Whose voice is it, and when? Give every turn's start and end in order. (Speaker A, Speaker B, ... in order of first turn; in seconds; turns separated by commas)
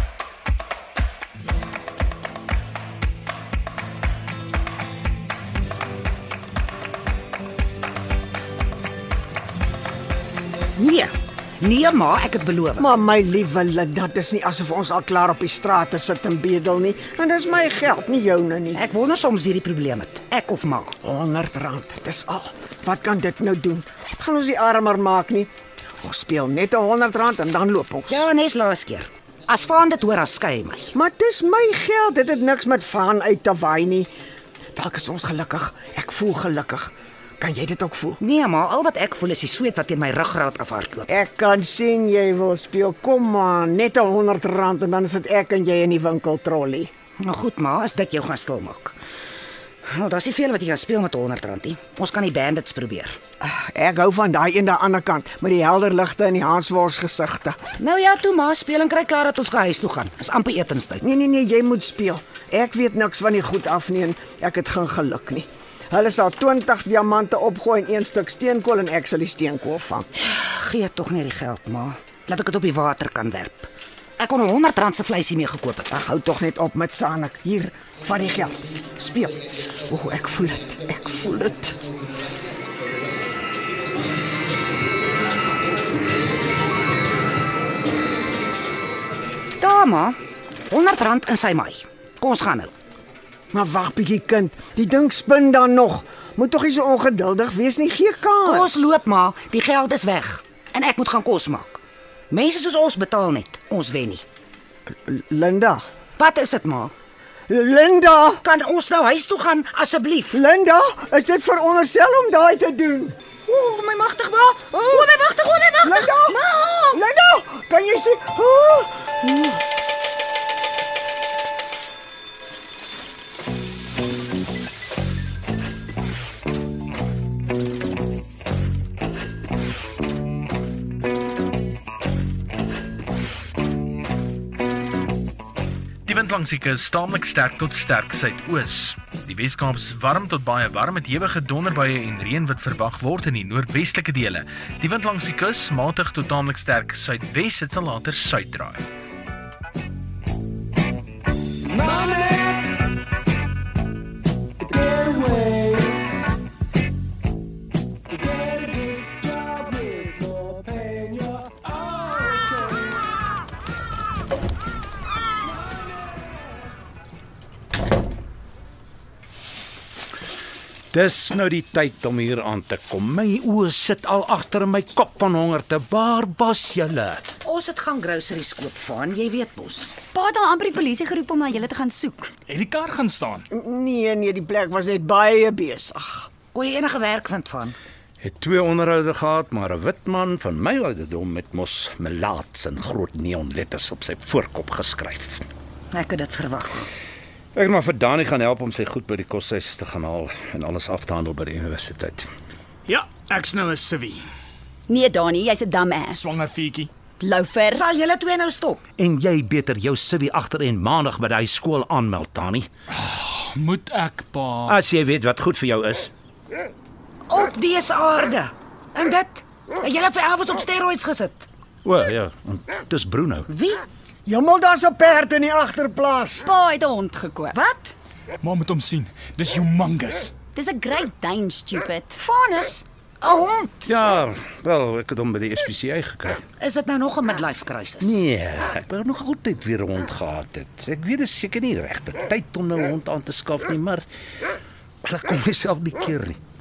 Speaker A: 10.8-12.9, Speaker B: 12.8-18.8, Speaker A: 18.7-21.0, Speaker B: 21.0-25.5, Speaker B: 26.0-28.2, Speaker A: 28.1-30.9, Speaker B: 30.9-34.1, Speaker B: 34.7-38.2, Speaker A: 38.2-41.1, Speaker B: 41.1-46.9, Speaker A: 47.2-48.9, Speaker A: 49.9-53.2, Speaker B: 53.4-57.6, Speaker A: 57.8-61.0, Speaker B: 61.0-70.1, Speaker A: 70.2-76.0, Speaker B: 75.9-81.8, Speaker A: 89.6-90.2, Speaker A: 90.7-92.7, Speaker B: 93.5-98.8, Speaker A: 98.4-104.2, Speaker B: 105.0-105.8, Speaker A: 106.2-106.9, Speaker B: 107.5-108.4, Speaker A: 108.4-110.4, Speaker B: 110.3-113.2, Speaker A: 113.5-117.0, Speaker B: 115.8-116.4, Speaker B: 116.9-119.6, Speaker C: 136.1-148.8, Speaker B: 151.8-152.5, Speaker B: 154.8-155.4, Speaker B: 160.3-161.2, Speaker D: 170.9-177.3, Speaker A: 177.4-179.9, Speaker E: 180.1-182.3, Speaker F: 182.5-183.4, Speaker B: 183.5-186.3, Speaker A: 186.5-187.8, Speaker D: 188.2-195.5, Speaker A: 195.9-196.9, Speaker D: 197.5-202.3, Speaker F: 202.9-204.2, Speaker E: 204.9-206.4, Speaker F: 206.1-206.9, Speaker E: 207.2-207.8, Speaker A: 207.7-208.8, Speaker D: 209.0-212.7, Speaker F: 212.9-214.8, Speaker D: 214.7-216.1, Speaker A: 217.3-221.5, Speaker D: 221.8-223.5, Speaker A: 223.5-223.8, Speaker B: 224.2-226.4, Speaker E: 226.4-227.9, Speaker F: 228.4-230.3, Speaker E: 230.5-232.2, Speaker A: 232.1-233.9, Speaker D: 233.8-236.4, Speaker A: 236.6-238.2, Speaker D: 238.0-244.0, Speaker D: 245.0-246.4